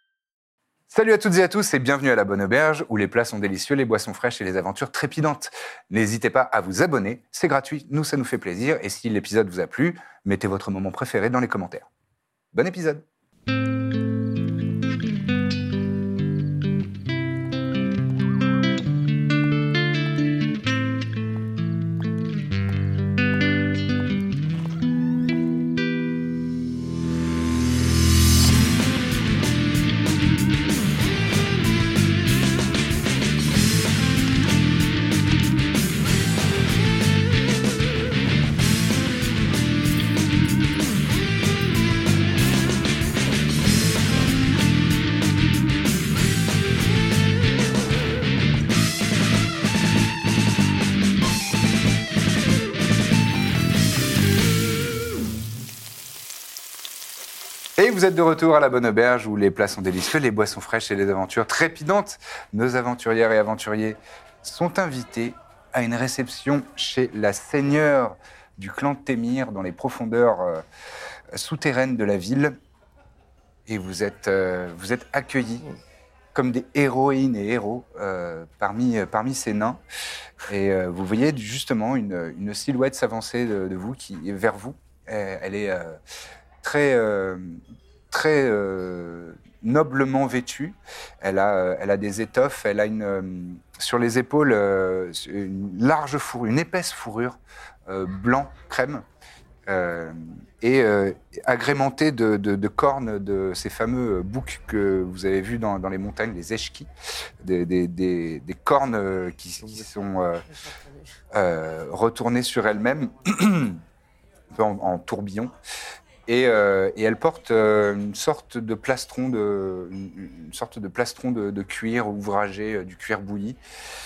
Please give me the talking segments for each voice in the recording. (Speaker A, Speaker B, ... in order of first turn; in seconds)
Speaker A: 0.9-11.9, 12.5-13.0, 57.8-70.6, 71.3-72.6, 73.7-75.7, 76.3-79.8, 80.5-86.0, 86.6-99.0, 99.7-106.9, 107.4-110.4, 111.3-113.8, 114.5-115.5, 116.3-123.6